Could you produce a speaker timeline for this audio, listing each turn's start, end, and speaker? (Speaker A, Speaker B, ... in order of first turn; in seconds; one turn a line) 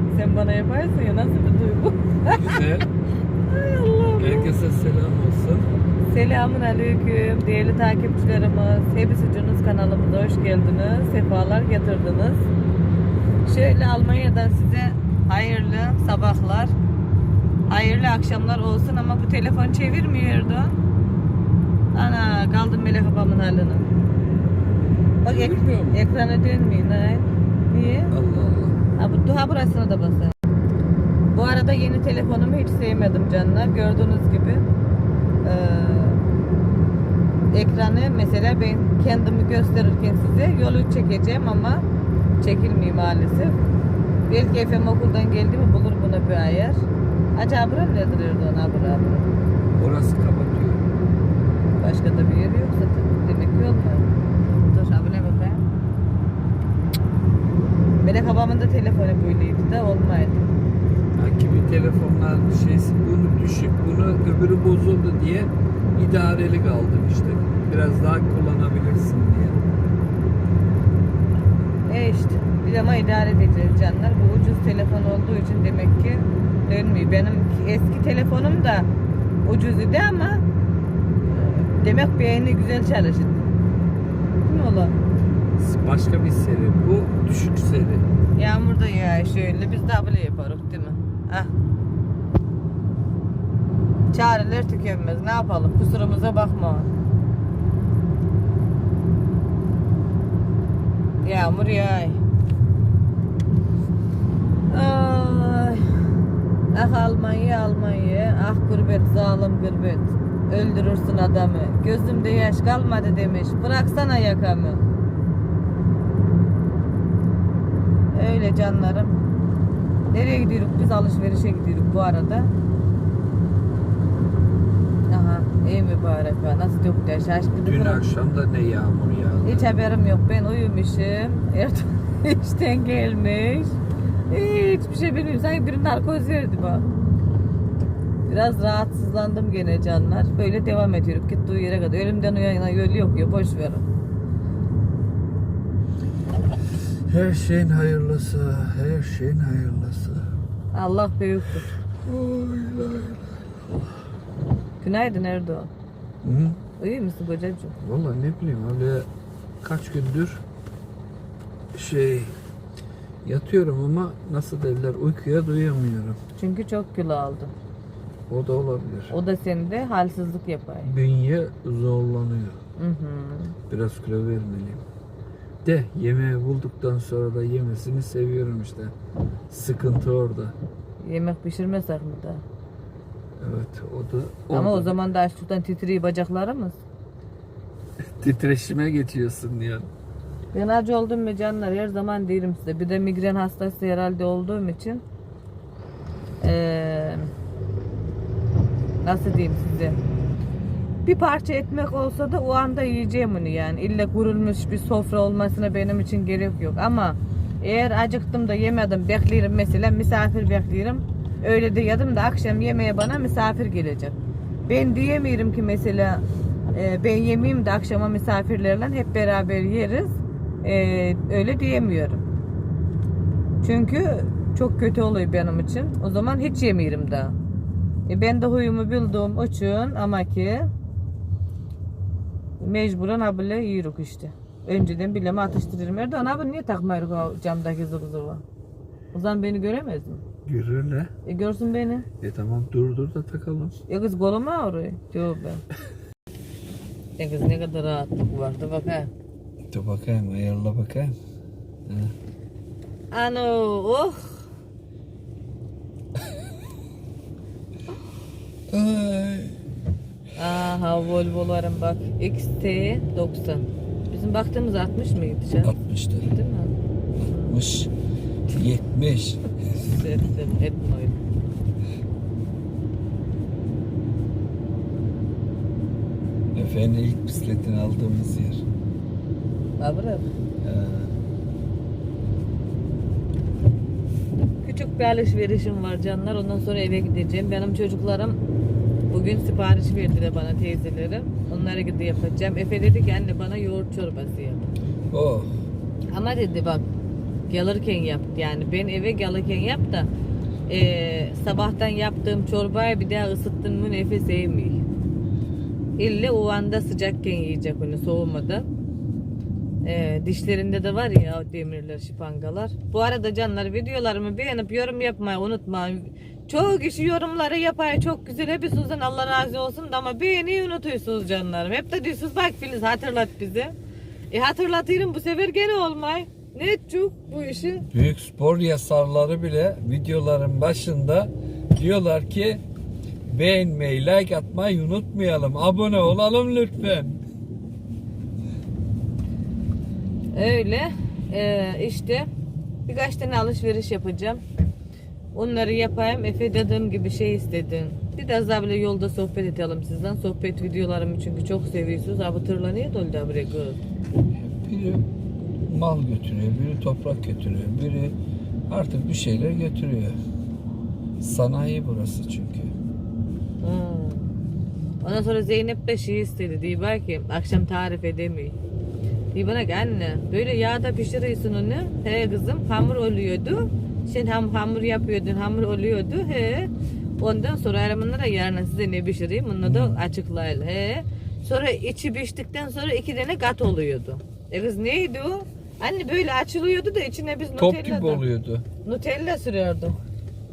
Speaker A: 0.1-2.6
Speaker B: 2.3-2.9
Speaker A: 3.5-4.5
Speaker B: 4.2-5.7
Speaker A: 6.1-12.5
Speaker A: 13.4-16.7
Speaker A: 17.7-20.8
Speaker A: 21.9-23.9
Speaker A: 25.2-28.1
Speaker B: 25.2-26.0
Speaker B: 28.1-28.8
Speaker A: 29.0-30.3
Speaker A: 31.3-34.6
Speaker A: 35.4-36.2
Speaker A: 37.5-41.8
Speaker A: 42.4-43.6
Speaker A: 44.3-49.3
Speaker B: 49.8-50.9
Speaker A: 51.8-55.6
Speaker A: 58.0-60.5
Speaker B: 61.1-69.6
Speaker A: 71.8-78.9
Speaker A: 79.4-80.4
Speaker A: 81.2-83.5
Speaker A: 84.4-84.9
Speaker B: 85.6-88.1
Speaker A: 88.3-91.5
Speaker A: 94.1-96.9
Speaker A: 101.2-102.2
Speaker A: 104.7-105.8
Speaker A: 106.7-114.8
Speaker A: 118.1-119.2
Speaker A: 120.1-122.5
Speaker A: 125.1-128.0
Speaker B: 127.6-129.8
Speaker A: 129.4-136.8
Speaker A: 138.2-143.8
Speaker B: 147.1-150.2
Speaker A: 150.7-151.7
Speaker B: 152.0-153.2
Speaker A: 154.8-155.7
Speaker B: 156.2-156.6
Speaker A: 156.8-157.7
Speaker B: 157.8-159.1
Speaker B: 159.6-160.4
Speaker B: 161.7-162.3
Speaker B: 163.2-166.2
Speaker A: 166.4-167.5
Speaker B: 168.3-169.1
Speaker A: 169.1-170.9
Speaker B: 170.8-172.6
Speaker A: 172.8-173.6
Speaker B: 173.7-174.8
Speaker B: 175.6-178.9
Speaker B: 179.5-180.6
Speaker A: 181.0-182.4
Speaker B: 183.4-185.0
Speaker A: 184.5-186.8
Speaker B: 188.2-189.9
Speaker A: 190.5-195.0
Speaker A: 196.4-197.3
Speaker A: 199.0-200.0
Speaker A: 201.0-222.2
Speaker A: 223.6-227.3
Speaker A: 228.1-230.7
Speaker A: 232.6-238.4
Speaker A: 239.1-240.2
Speaker B: 240.4-241.1
Speaker A: 241.2-242.1
Speaker B: 242.2-243.8
Speaker A: 243.9-245.6
Speaker A: 247.2-249.1
Speaker B: 249.7-251.1
Speaker B: 251.9-252.1
Speaker A: 253.1-254.4
Speaker B: 258.7-259.6
Speaker A: 260.4-266.7
Speaker B: 265.6-266.3
Speaker A: 267.3-267.5
Speaker B: 267.4-267.9
Speaker B: 268.5-269.5
Speaker A: 269.8-271.2
Speaker B: 276.5-278.6
Speaker A: 279.8-280.2
Speaker B: 280.6-281.1
Speaker A: 284.6-288.4
Speaker A: 289.1-294.7
Speaker B: 295.1-295.5
Speaker A: 296.1-296.9
Speaker A: 297.5-300.1
Speaker A: 300.7-304.8
Speaker A: 306.0-308.7
Speaker A: 309.8-323.7
Speaker A: 324.3-327.9
Speaker B: 327.9-332.6
Speaker B: 333.3-337.2
Speaker A: 340.3-342.3
Speaker A: 342.9-344.4
Speaker A: 345.3-353.8
Speaker B: 354.4-355.1
Speaker B: 355.7-358.1
Speaker B: 358.7-360.2
Speaker B: 361.2-362.7
Speaker A: 363.6-364.3
Speaker A: 365.0-368.6
Speaker A: 369.3-388.2
Speaker B: 379.6-380.0
Speaker B: 387.6-388.6
Speaker A: 388.8-390.0